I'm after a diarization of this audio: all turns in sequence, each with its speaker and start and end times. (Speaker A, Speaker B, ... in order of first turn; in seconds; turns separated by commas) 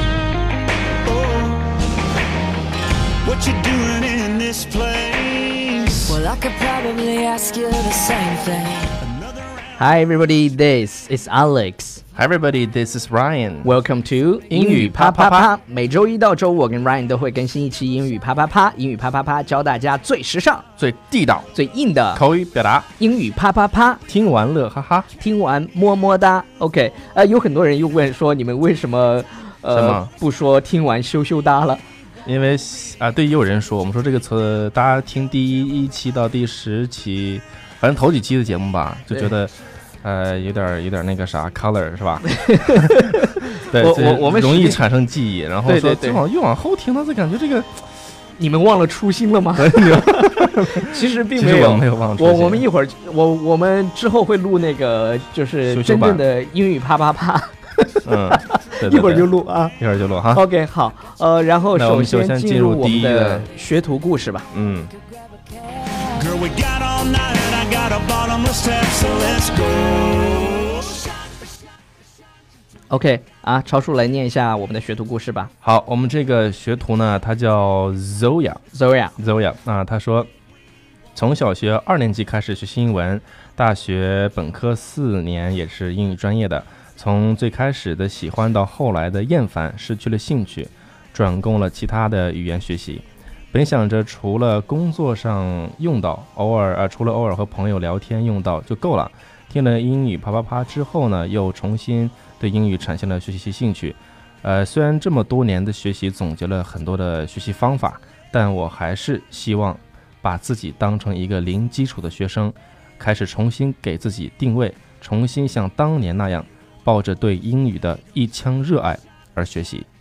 Speaker A: 1.1-1.6, Speaker A: 3.2-6.2, Speaker B: 6.0-9.0, Speaker A: 9.0-9.7, Speaker C: 9.8-12.0, Speaker D: 12.1-13.7, Speaker C: 13.6-20.6, Speaker D: 14.5-15.5, Speaker D: 20.8-21.5, Speaker C: 21.5-22.2, Speaker D: 22.1-22.9, Speaker C: 23.0-24.0, Speaker D: 24.1-25.1, Speaker C: 25.1-31.8, Speaker D: 29.7-30.1, Speaker D: 32.2-47.8, Speaker C: 42.2-44.8, Speaker C: 45.6-46.2, Speaker C: 48.4-59.8, Speaker D: 49.5-52.7, Speaker D: 55.7-56.2, Speaker D: 58.0-60.4, Speaker C: 60.3-64.5, Speaker D: 61.7-63.5, Speaker D: 64.5-64.9, Speaker A: 66.0-71.1, Speaker C: 72.9-75.5, Speaker D: 75.6-78.6, Speaker C: 78.7-79.1, Speaker D: 79.2-80.3, Speaker D: 81.1-119.8